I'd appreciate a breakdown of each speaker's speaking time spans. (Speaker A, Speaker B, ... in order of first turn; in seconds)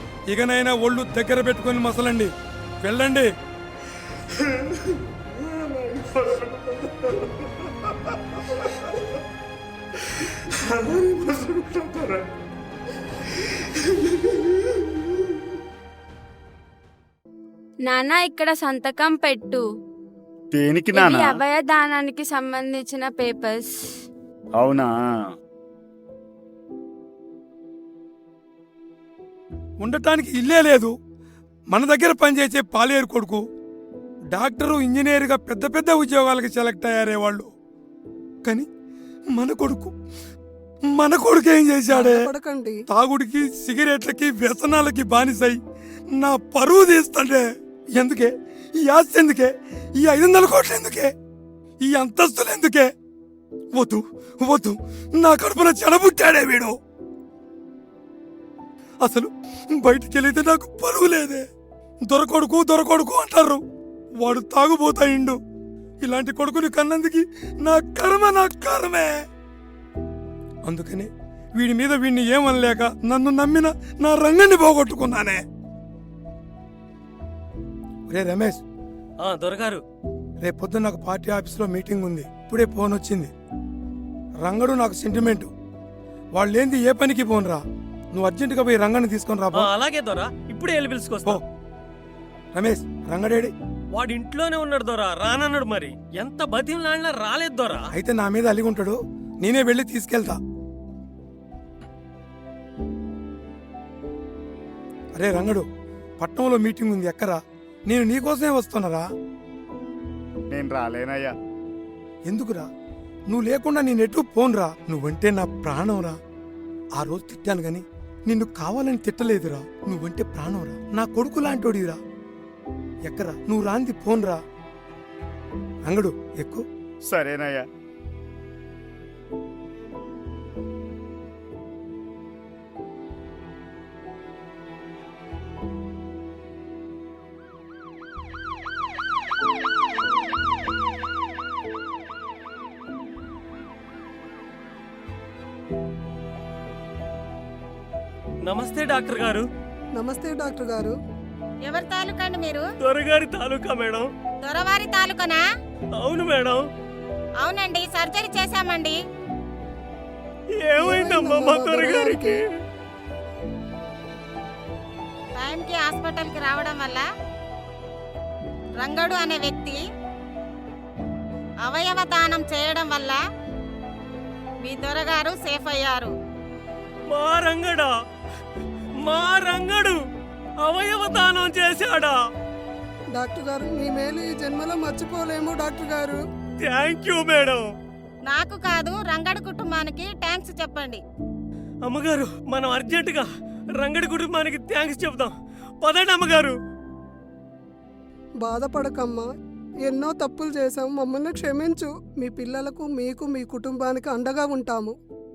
Speaker A: 0.3-3.3, 29.8-30.9, 31.7-33.4, 34.3-37.5, 39.3-39.9, 40.9-42.3, 42.9-45.6, 46.1-47.4, 48.0-51.1, 51.8-52.9, 53.7-56.7, 59.0-61.4, 62.0-63.6, 64.2-65.4, 66.0-69.1, 70.7-75.4, 78.1-78.6, 80.4-83.3, 84.4-85.5, 86.3-89.7, 92.5-93.5, 97.9-100.4, 105.1-105.7, 106.2-109.1, 112.3-112.7, 113.3-116.2, 117.0-122.0, 123.1-124.4, 125.8-126.6
Speaker B: 5.4-7.5, 10.6-12.2, 20.5-21.3, 24.6-24.9, 110.5-111.3, 127.1-127.6
Speaker C: 17.8-19.6, 20.9-23.7
Speaker D: 41.9-42.8, 150.0-150.9, 160.8-162.4, 183.1-186.2, 198.4-199.3, 199.8-204.9
Speaker E: 79.2-79.8, 89.6-91.4, 93.9-97.8, 148.4-149.4, 152.8-154.1, 156.0-156.6, 160.6-162.4, 177.1-177.9, 179.0-180.0, 180.6-182.2, 186.6-187.7, 191.9-193.3, 193.8-196.5
Speaker F: 151.6-152.6, 154.4-155.4, 157.4-159.0, 165.3-167.0, 168.8-169.8, 171.6-173.2, 174.6-176.1, 188.2-191.0